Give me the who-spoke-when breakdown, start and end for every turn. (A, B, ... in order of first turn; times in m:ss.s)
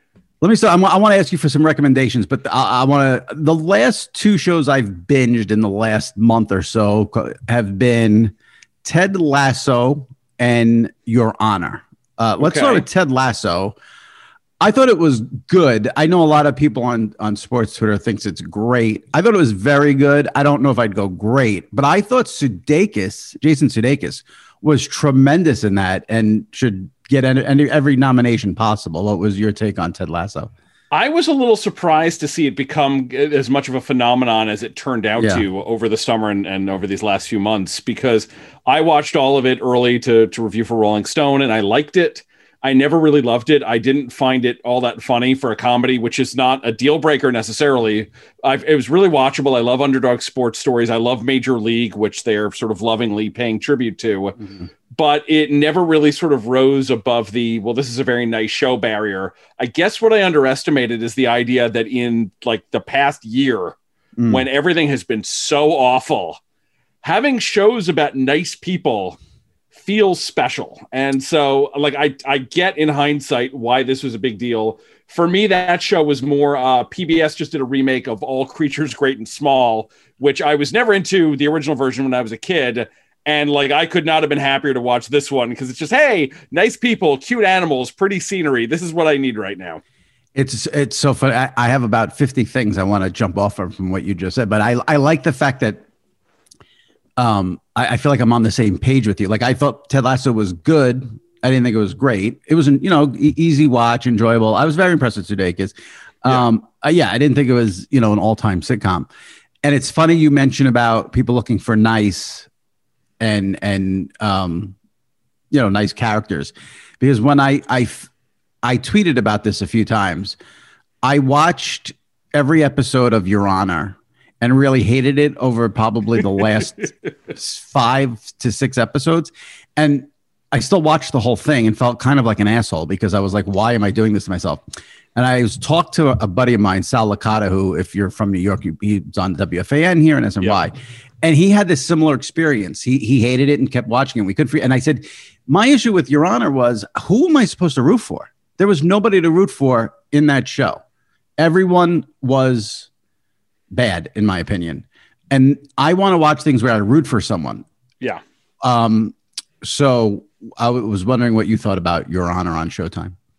0:00.4-0:13.8 A
0:12.4-0:12.9 B
0:14.6-0:30.5 A
0:30.9-0:54.4 B
0:35.2-0:35.4 A
0:54.9-1:06.4 B
1:04.2-1:04.4 A
1:07.0-1:09.2 B
1:09.7-1:29.8 B
1:30.3-1:35.8 A
1:37.2-1:49.1 A
1:49.6-1:52.5 A
1:53.2-1:54.7 A
1:55.5-1:58.1 A
1:58.6-2:00.4 A
2:01.0-2:30.8 A
2:31.4-2:32.9 A
2:33.7-2:37.6 A
2:38.6-2:43.2 A